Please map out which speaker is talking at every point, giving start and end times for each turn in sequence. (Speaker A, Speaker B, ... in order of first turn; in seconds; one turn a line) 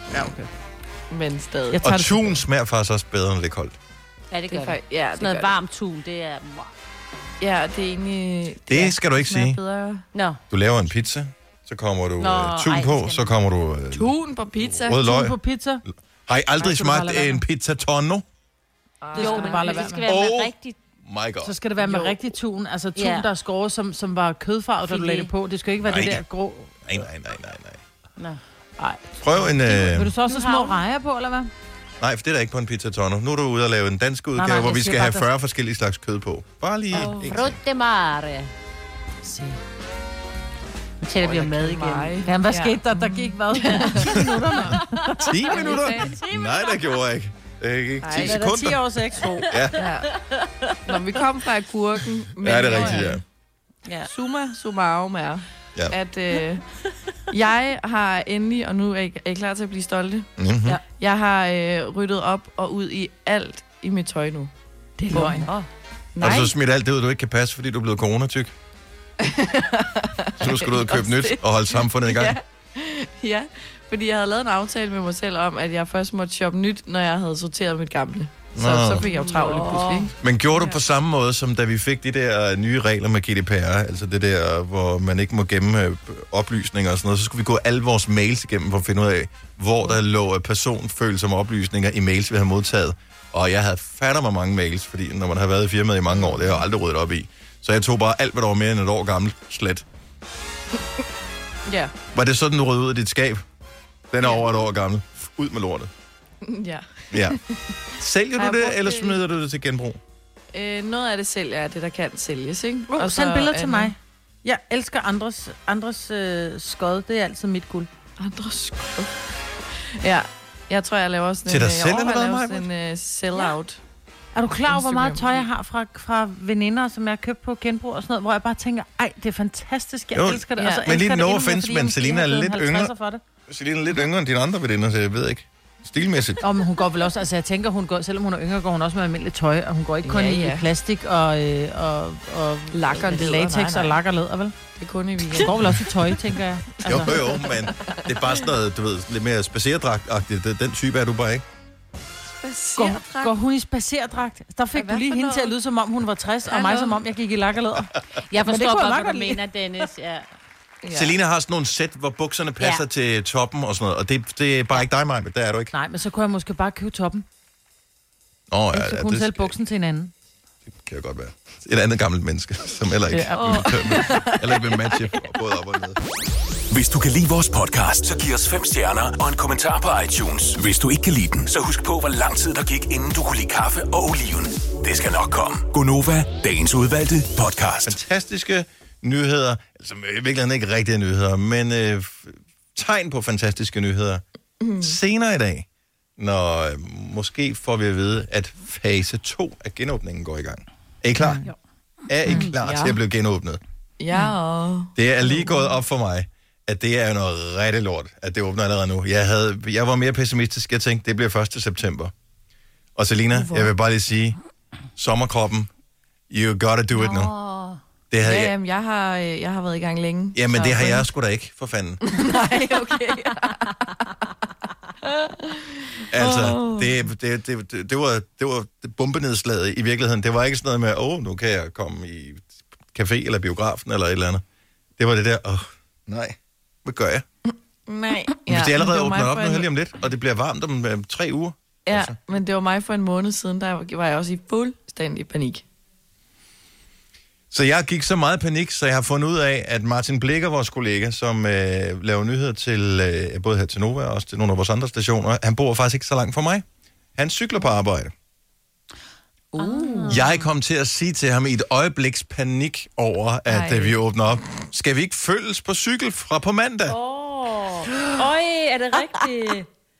Speaker A: 0.1-0.5
Speaker B: 1.1-1.8
Speaker A: 1.7-2.4
Speaker C: 1.8-3.7
Speaker D: 4.3-6.7
Speaker B: 4.5-5.5
Speaker B: 7.4-10.0
Speaker C: 8.7-9.6
Speaker D: 10.1-10.4
Speaker C: 10.5-18.2
Speaker D: 12.2-13.3
Speaker B: 13.9-15.0
Speaker A: 14.9-15.8
Speaker A: 16.6-17.4
Speaker B: 19.0-19.9
Speaker D: 19.1-20.8
Speaker A: 19.1-20.1
Speaker C: 20.1-20.5
Speaker C: 21.0-21.5
Speaker A: 21.4-26.7
Speaker B: 21.8-22.2
Speaker D: 22.9-23.3
Speaker D: 24.9-25.3
Speaker C: 25.8-26.2
Speaker C: 26.8-27.8
Speaker A: 28.8-31.5
Speaker C: 29.2-30.1
Speaker D: 30.2-30.8
Speaker C: 32.0-37.6
Speaker A: 34.4-35.3
Speaker B: 36.9-37.4
Speaker D: 37.2-38.5
Speaker A: 39.2-39.6
Speaker D: 41.0-42.3
Speaker B: 41.2-44.3
Speaker A: 42.2-45.2
Speaker D: 44.8-47.0
Speaker C: 45.2-49.8
Speaker B: 45.5-46.1
Speaker B: 48.0-48.4
Speaker A: 48.2-49.6
Speaker D: 49.5-50.7
Speaker B: 49.7-50.1
Speaker B: 50.9-53.2
Speaker C: 52.4-53.2
Speaker D: 53.9-54.1
Speaker B: 54.0-56.6
Speaker B: 57.3-60.3
Speaker C: 60.4-60.8
Speaker B: 60.9-64.5
Speaker A: 65.0-65.5
Speaker B: 65.1-65.5
Speaker D: 65.2-65.7
Speaker B: 66.1-66.5
Speaker C: 66.2-68.5
Speaker B: 69.2-80.8
Speaker C: 70.4-72.4
Speaker C: 78.5-79.0
Speaker D: 79.1-80.1
Speaker C: 80.2-99.8
Speaker B: 96.1-96.6
Speaker B: 101.7-101.9
Speaker C: 102.1-103.4
Speaker C: 104.1-105.9
Speaker B: 104.2-104.5
Speaker B: 106.4-107.4
Speaker C: 107.1-107.4
Speaker C: 108.0-110.0
Speaker B: 108.4-109.2
Speaker B: 110.5-113.9
Speaker A: 112.9-117.9
Speaker B: 118.2-119.1
Speaker B: 119.8-123.8
Speaker C: 121.5-122.7
Speaker A: 124.3-133.2
Speaker B: 124.7-125.5
Speaker C: 130.1-132.9
Speaker B: 130.6-130.8
Speaker C: 133.5-136.4
Speaker A: 136.4-144.5
Speaker B: 140.0-140.7
Speaker B: 142.7-144.0
Speaker B: 144.8-145.9
Speaker A: 145.3-147.1
Speaker C: 146.8-151.4
Speaker B: 146.8-148.4
Speaker B: 152.3-153.3
Speaker A: 152.8-159.4
Speaker B: 154.7-155.5
Speaker B: 156.4-157.0
Speaker D: 158.3-160.3
Speaker B: 160.8-161.2
Speaker C: 160.9-165.7
Speaker A: 165.7-167.2
Speaker C: 168.5-169.5
Speaker A: 168.7-170.1
Speaker C: 170.7-176.0
Speaker A: 173.1-174.1
Speaker B: 173.3-175.3
Speaker E: 176.7-187.9
Speaker C: 187.8-194.2
Speaker B: 194.6-194.9
Speaker C: 194.8-195.7
Speaker C: 196.2-201.4
Speaker A: 201.2-201.5
Speaker C: 202.1-203.6
Speaker B: 202.3-203.0
Speaker B: 204.0-205.7
Speaker C: 204.9-212.1
Speaker C: 212.9-214.4
Speaker B: 213.3-213.7
Speaker C: 215.0-215.7
Speaker C: 216.3-217.3
Speaker D: 216.9-217.8
Speaker C: 218.1-218.5
Speaker B: 218.2-221.1
Speaker C: 220.3-222.1
Speaker B: 222.0-223.9
Speaker B: 225.0-226.9
Speaker C: 226.1-234.4
Speaker C: 235.0-237.2
Speaker B: 237.9-239.7
Speaker C: 238.5-242.2
Speaker B: 241.8-245.6
Speaker C: 247.5-256.6
Speaker C: 257.1-258.1
Speaker B: 259.5-260.2
Speaker D: 259.6-260.3
Speaker C: 260.1-267.0
Speaker B: 263.5-263.9
Speaker D: 266.9-269.7